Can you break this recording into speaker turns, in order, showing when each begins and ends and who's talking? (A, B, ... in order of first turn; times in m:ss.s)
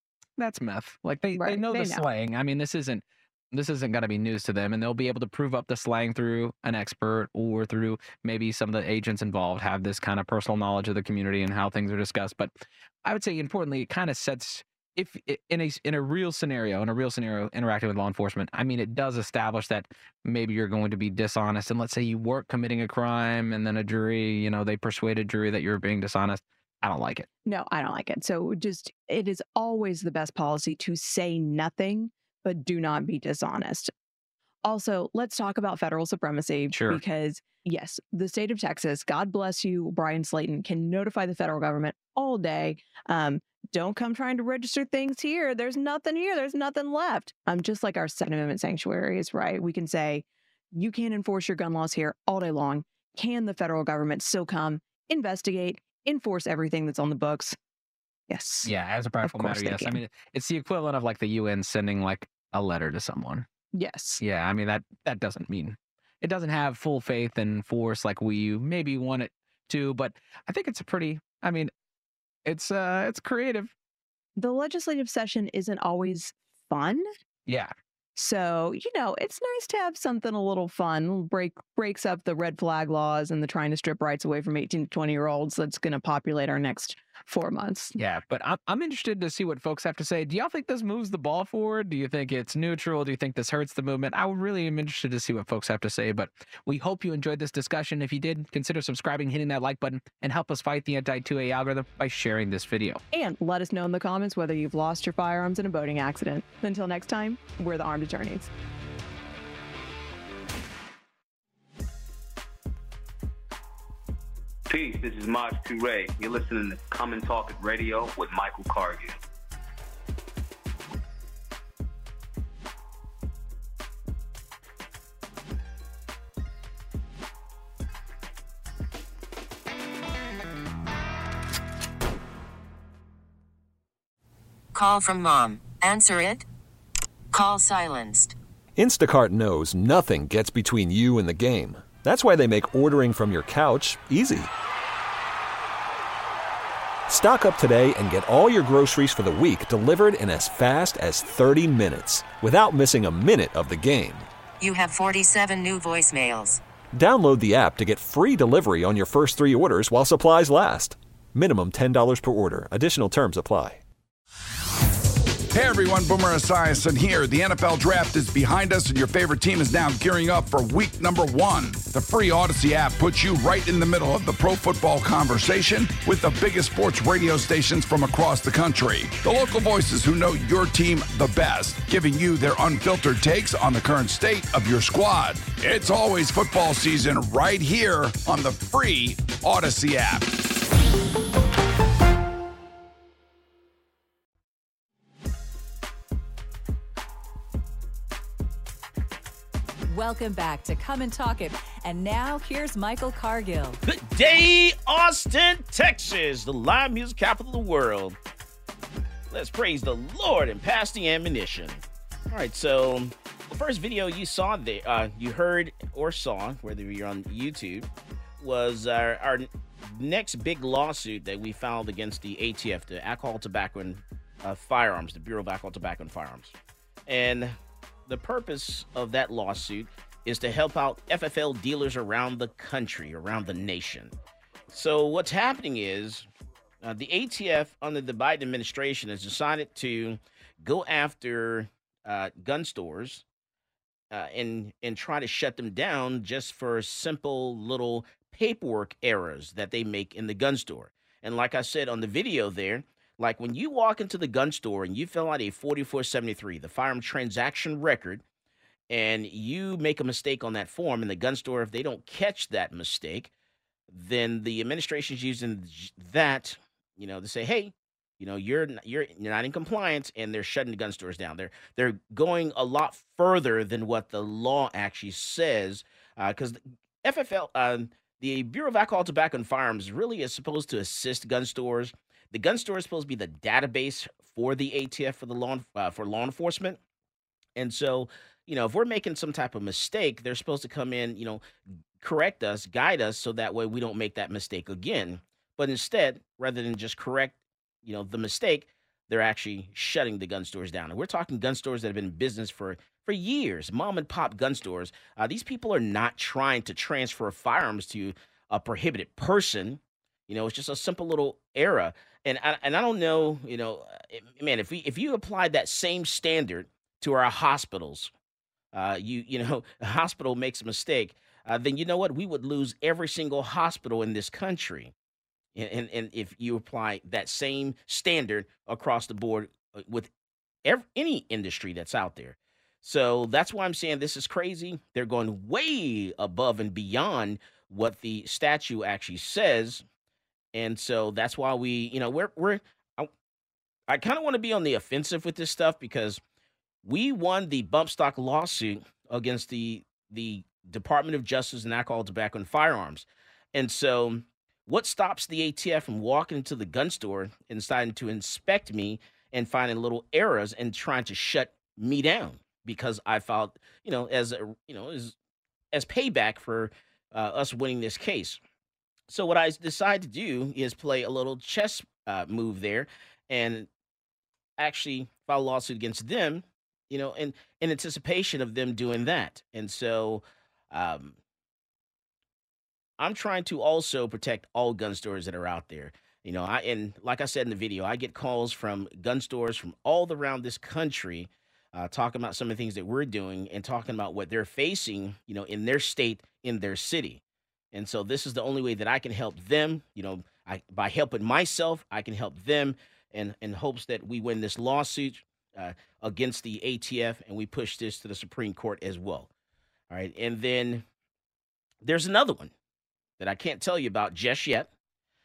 0:00.4-0:27.3 A
0:01.3-0:02.0 B
0:27.4-0:33.9 B
0:34.6-0:57.6 B
0:36.7-0:37.0 A
0:58.3-1:00.0 B
0:58.6-1:03.4 A
1:03.7-1:04.2 B
1:04.2-1:11.7 A
1:12.4-1:13.7 A
1:14.4-1:17.1 B
1:17.5-1:17.7 A
1:18.2-1:27.9 B
1:28.0-1:43.0 A
1:43.1-1:48.5 B
1:54.7-1:59.2 C
2:14.7-2:16.4 D
2:17.3-2:18.3 D
2:18.8-2:24.5 E
2:27.1-2:34.2 E
2:34.6-2:36.6 D
2:36.9-2:43.8 E
2:45.5-3:10.3 F
3:19.9-3:23.8 G
3:23.8-3:28.2 H
3:29.3-3:37.9 H
3:38.4-3:46.6 H
3:47.1-3:54.1 H
3:54.7-3:56.3 H
3:56.8-4:03.2 H
4:04.1-4:18.2 H
4:18.9-4:23.3 H
4:23.9-4:46.8 H
4:47.6-4:51.4 H
4:52.0-5:18.1 H
5:18.7-5:24.9 H
5:25.5-5:30.1 H
5:30.6-5:39.8 H
5:40.5-5:43.1 H
5:43.9-5:46.2 H
5:46.8-6:05.1 H
6:05.7-6:08.4 H
6:09.1-6:13.7 H
6:14.6-6:21.2 H
6:23.0-6:37.2 H
6:37.7-6:49.3 H
6:49.9-6:50.8 H
6:51.8-6:52.5 H
6:53.2-6:54.7 H